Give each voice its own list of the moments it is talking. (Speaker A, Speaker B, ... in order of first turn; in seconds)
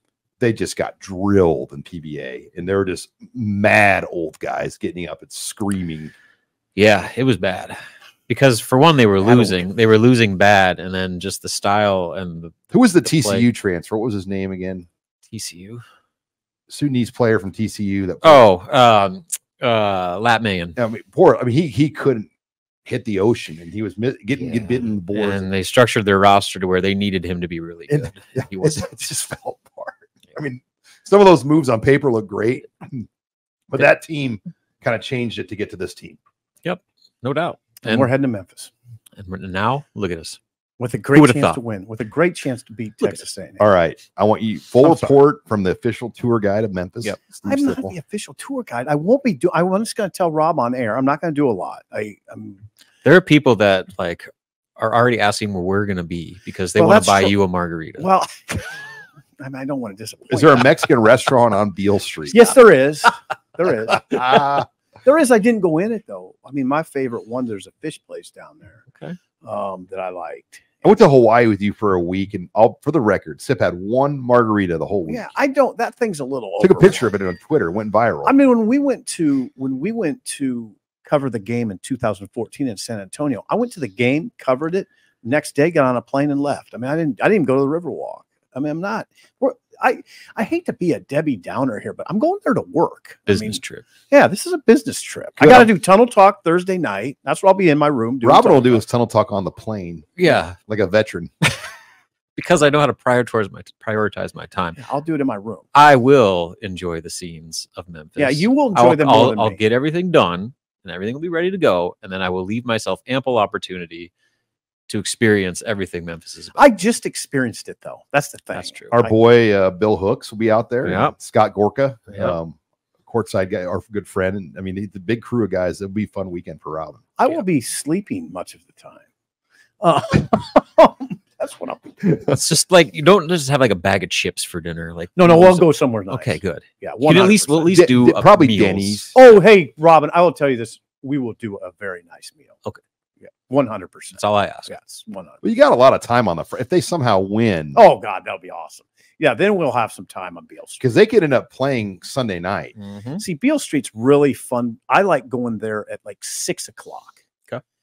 Speaker A: 0.4-6.1, 9.2-9.6, 12.7-14.9, 16.7-18.5, 20.8-22.3, 22.9-25.5, 27.9-33.1, 33.7-36.2, 43.6-48.0, 60.3-62.5, 64.1-64.7, 70.8-75.3, 76.6-78.3, 95.4-95.7, 98.2-101.3, 118.9-127.0, 137.7-139.1, 145.4-147.8, 150.8-152.7
Speaker B: 6.8-7.8, 8.3-13.5, 15.3-15.8, 18.2-20.8, 24.4-29.0, 36.6-38.1, 39.2-40.4, 41.1-41.6, 53.0-58.1, 93.3-93.8, 100.2-100.6, 102.4-104.8, 105.7-114.1, 114.9-116.7, 118.5-119.0, 120.8-121.2, 132.2-139.1, 144.2-144.7, 152.8-153.2
Speaker C: 37.8-38.7, 40.8-43.6, 44.8-45.1, 47.1-52.6, 56.8-57.4, 58.0-58.8, 59.4-60.8, 62.3-68.8, 69.4-70.9, 75.1-77.1, 78.2-98.8, 104.8-105.7, 108.2-109.6, 116.5-119.2, 127.2-129.1, 129.8-132.3, 135.2-137.8, 139.1-142.6, 143.3-145.4, 147.7-150.8, 153.2-157.2